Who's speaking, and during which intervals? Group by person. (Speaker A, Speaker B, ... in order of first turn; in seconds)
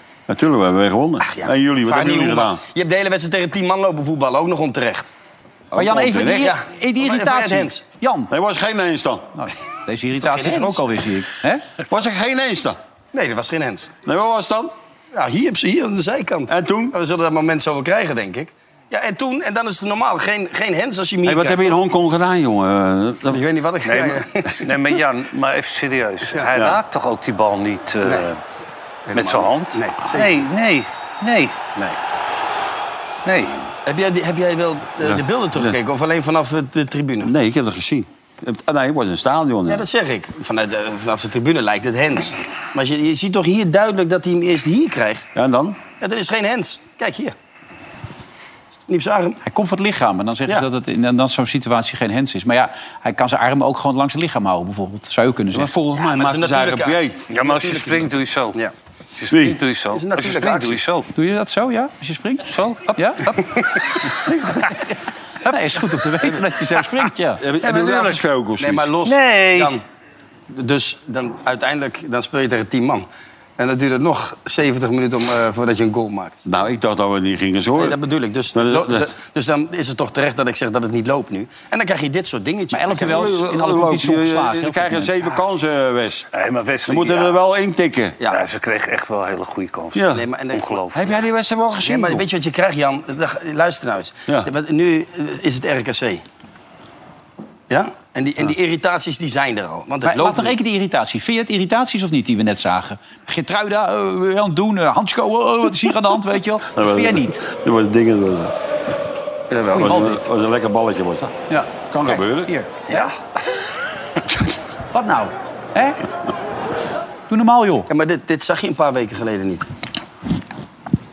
Speaker A: 0.3-2.6, 5.7-6.6, 8.3-9.3, 11.9-12.8, 14.1-14.7, 16.5-16.9, 21.2-23.4, 26.5-26.8, 35.0-35.8, 37.2-39.9, 45.4-45.8, 55.5-57.2, 59.3-59.6, 67.4-68.9, 76.5-78.0, 78.5-79.1, 83.0-86.3, 86.9-88.2, 89.9-90.2, 90.9-92.3, 106.7-108.5, 109.7-111.3, 111.9-112.5, 114.3-114.6
Speaker B: 1.3-5.1, 6.2-7.8, 10.2-10.8, 13.1-13.9, 15.1-21.7, 23.3-24.7, 29.1-30.4, 33.9-37.3, 39.7-45.3, 46.0-47.4, 48.9-49.4, 56.1-58.7, 59.9-60.8, 68.6-69.8, 70.5-73.1, 73.6-76.4, 77.8-83.4, 90.1-90.8, 91.8-96.2, 97.7-100.6, 109.5-110.0, 117.9-119.7
Speaker C: 5.8-8.3, 9.4-11.7, 49.4-55.7, 61.1-63.2, 65.5-67.4, 82.7-85.1, 100.0-107.4, 109.7-110.2, 111.5-113.0, 114.9-116.0, 117.3-117.9
Speaker D: 23.9-28.4, 29.1-31.6, 33.2-33.6, 57.3-58.6, 59.2-61.1, 62.5-64.1, 67.7-68.2, 69.0-69.8, 86.3-87.4, 88.3-91.2